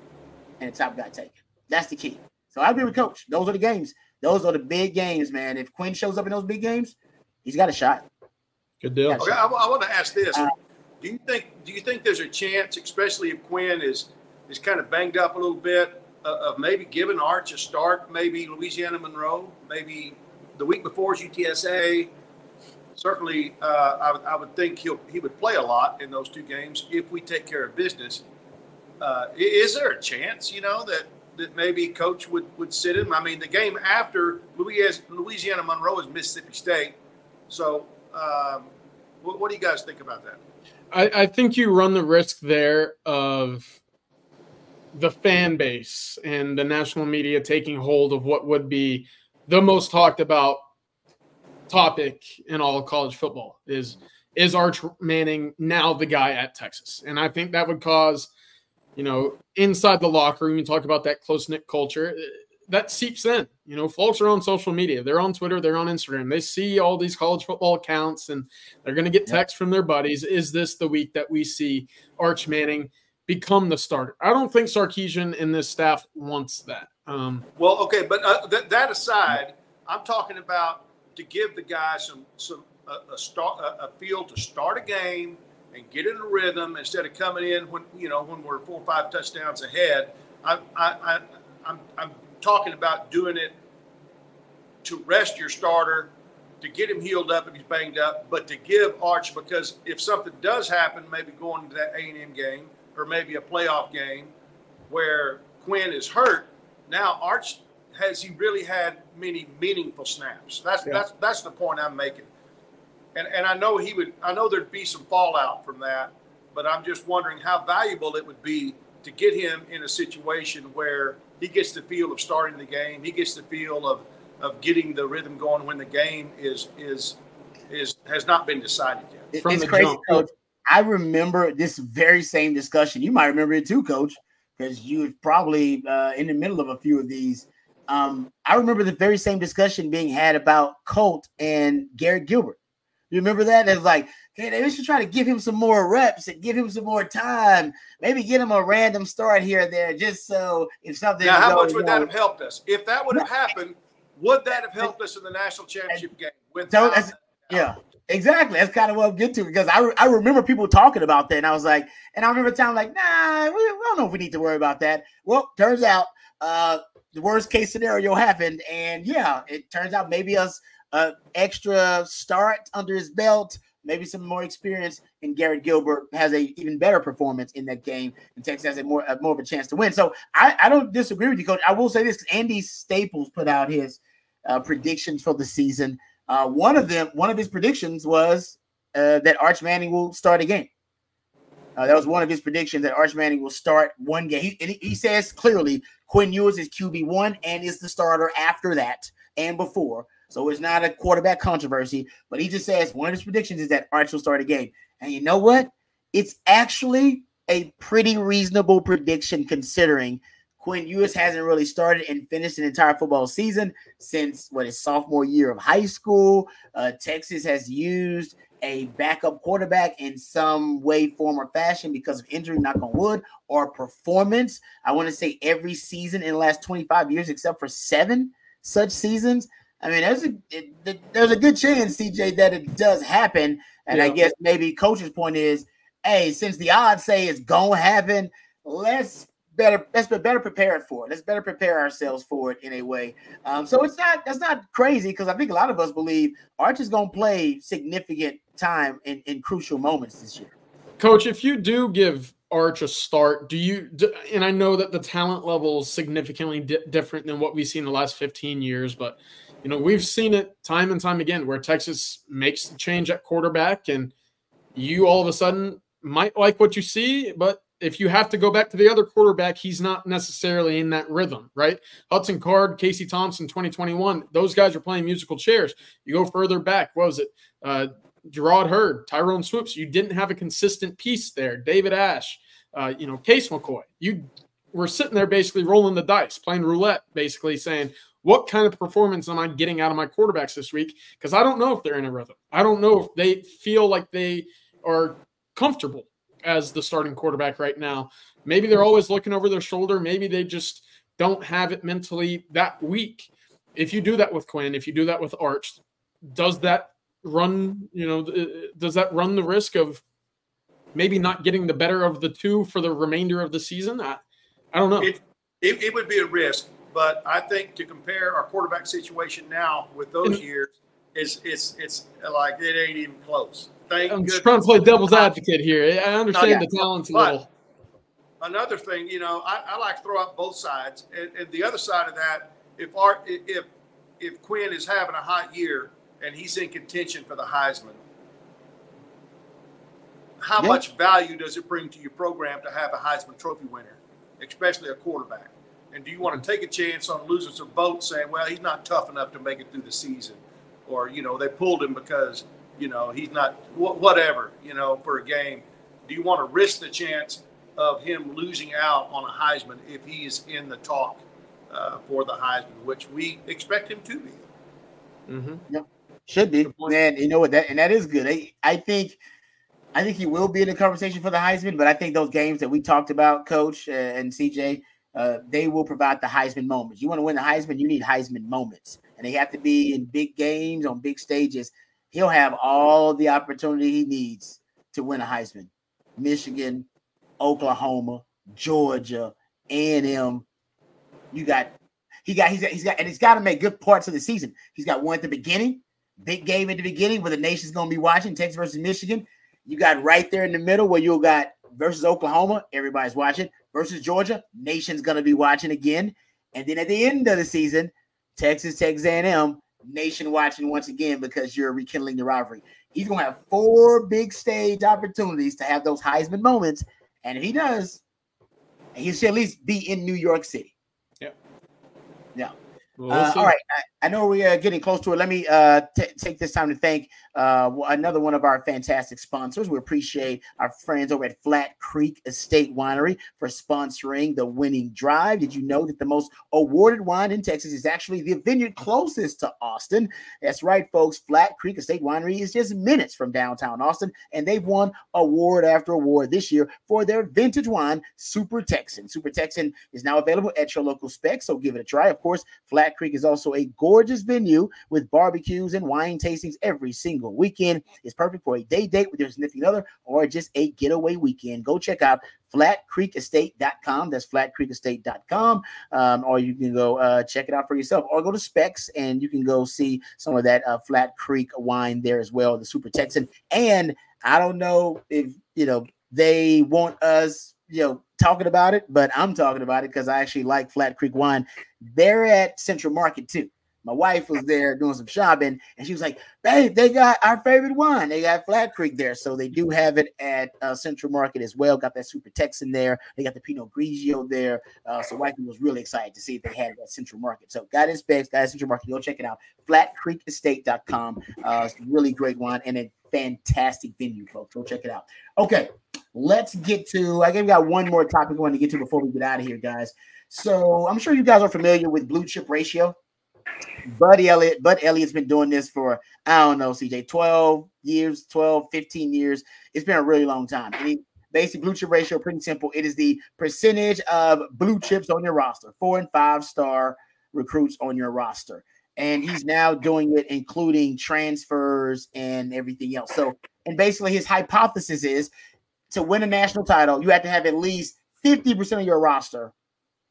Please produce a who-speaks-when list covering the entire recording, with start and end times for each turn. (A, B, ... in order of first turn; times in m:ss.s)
0:00.6-0:08.0 A
0:08.8-0:09.2 B
0:09.1-0:09.4 A
0:09.2-0:10.5 C
0:11.0-0:22.1 C
0:23.0-0:28.2 C
0:29.0-0:37.0 C
0:37.5-0:38.7 C
0:39.2-0:40.4 C
0:40.9-0:43.8 B
0:44.9-0:50.6 B
0:51.7-0:58.3 B
0:59.0-1:17.5 B
1:17.6-1:33.5 C
1:34.8-1:44.3 C
1:44.9-1:52.3 C
1:53.2-2:07.2 C
2:07.7-2:09.3 C
2:09.3-2:22.6 A
2:09.4-2:10.2 B
2:23.1-2:32.1 A
2:31.2-2:37.7 C
2:36.7-3:10.7 A
3:11.8-4:10.5 A
3:53.9-3:54.2 B
4:11.0-4:24.1 B
4:24.8-5:05.8 B
5:06.3-5:10.0 B
5:10.9-5:14.2 B
5:14.7-5:15.1 B
5:15.0-5:25.3 C
5:24.1-5:27.5 B
5:26.3-5:27.4 C
5:28.4-5:33.7 C
5:34.2-5:38.0 C
5:40.4-6:04.5 C
6:05.3-6:05.6 B
6:05.7-6:09.2 A
6:06.6-6:07.0 B
6:10.0-6:26.9 A
6:27.4-6:30.4 A
6:31.3-6:31.7 A
6:32.2-6:58.0 A
6:59.0-7:00.7 A
7:03.0-7:03.5 B
7:03.1-8:33.0 A
8:33.9-8:55.3 A
8:55.9-8:59.5 A